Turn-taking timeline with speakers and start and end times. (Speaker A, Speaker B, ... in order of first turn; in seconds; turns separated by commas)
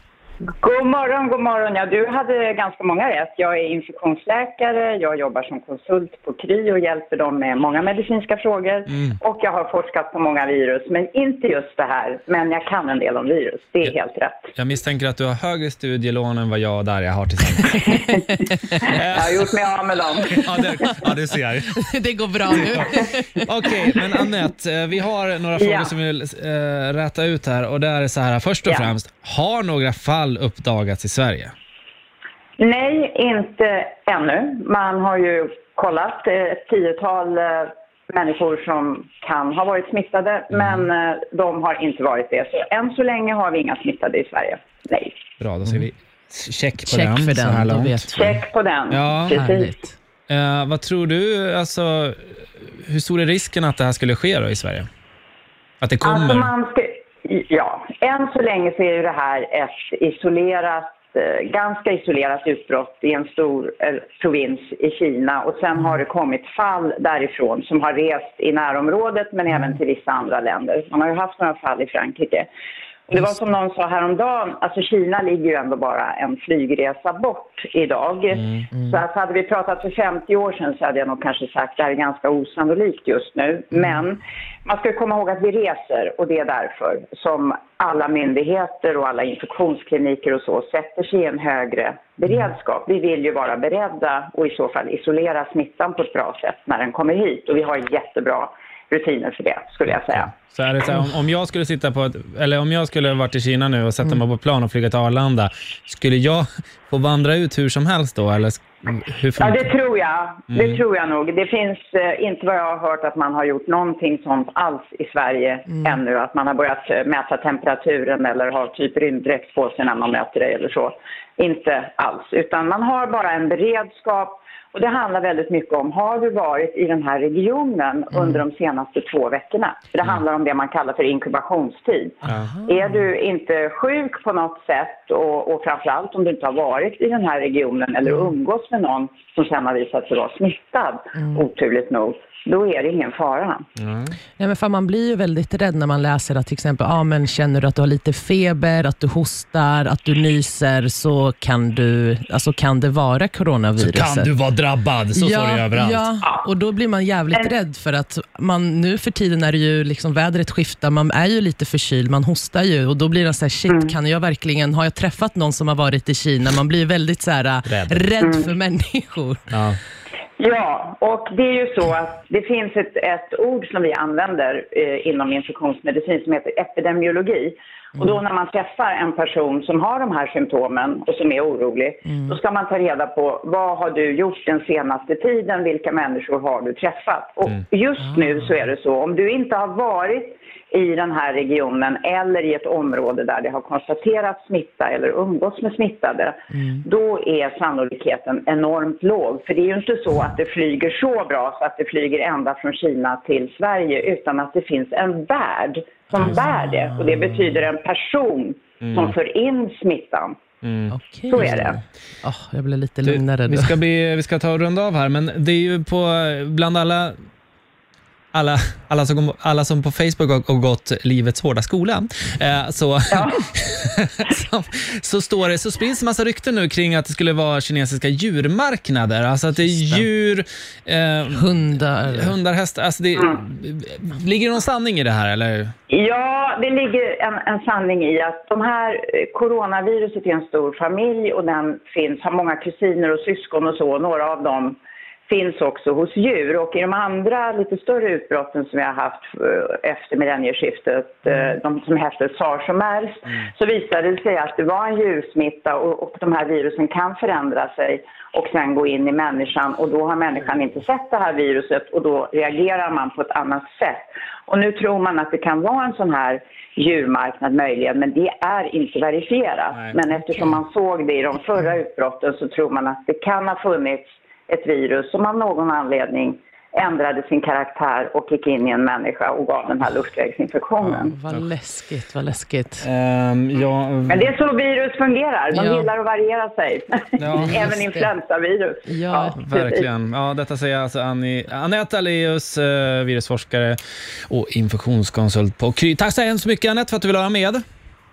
Speaker A: 0.6-14.5, Speaker B: 8.9-9.2, Speaker B: 14.6-18.0, Speaker B: 18.7-19.4, Speaker A: 18.9-20.9, Speaker B: 20.3-21.8, Speaker C: 21.7-24.0, Speaker B: 23.4-31.5, Speaker A: 25.6-25.9, Speaker A: 28.7-28.9, Speaker A: 32.6-45.2, Speaker B: 40.5-40.8, Speaker B: 45.4-48.1, Speaker C: 46.8-48.3, Speaker A: 48.1-49.7, Speaker B: 48.9-49.4, Speaker C: 49.3-50.0, Speaker B: 50.3-54.9, Speaker B: 55.8-56.5, Speaker A: 56.0-72.5, Speaker A: 73.1-100.4, Speaker B: 100.1-109.7, Speaker A: 109.4-143.7, Speaker B: 110.5-110.8, Speaker C: 128.1-128.4, Speaker C: 132.2-132.7, Speaker C: 141.2-141.4, Speaker B: 143.8-144.2, Speaker C: 144.4-154.3, Speaker B: 153.8-156.1, Speaker C: 155.1-169.5, Speaker B: 167.7-168.0, Speaker A: 168.2-168.5, Speaker B: 169.5-169.8, Speaker A: 170.4-210.4, Speaker C: 196.5-196.8, Speaker C: 206.1-207.4, Speaker B: 208.8-209.1, Speaker B: 210.6-210.9, Speaker C: 210.9-211.7, Speaker A: 211.3-211.8, Speaker C: 212.2-213.8, Speaker B: 213.1-217.2, Speaker B: 218.3-231.4, Speaker A: 223.1-223.4, Speaker C: 229.6-230.1, Speaker C: 231.3-232.3, Speaker B: 232.1-235.7, Speaker A: 235.9-281.1, Speaker C: 280.9-282.9, Speaker B: 282.8-284.3, Speaker A: 284.1-289.9, Speaker C: 285.5-285.9, Speaker B: 287.2-287.8, Speaker C: 287.3-288.1, Speaker C: 288.9-289.4, Speaker B: 289.4-293.8, Speaker B: 294.3-297.6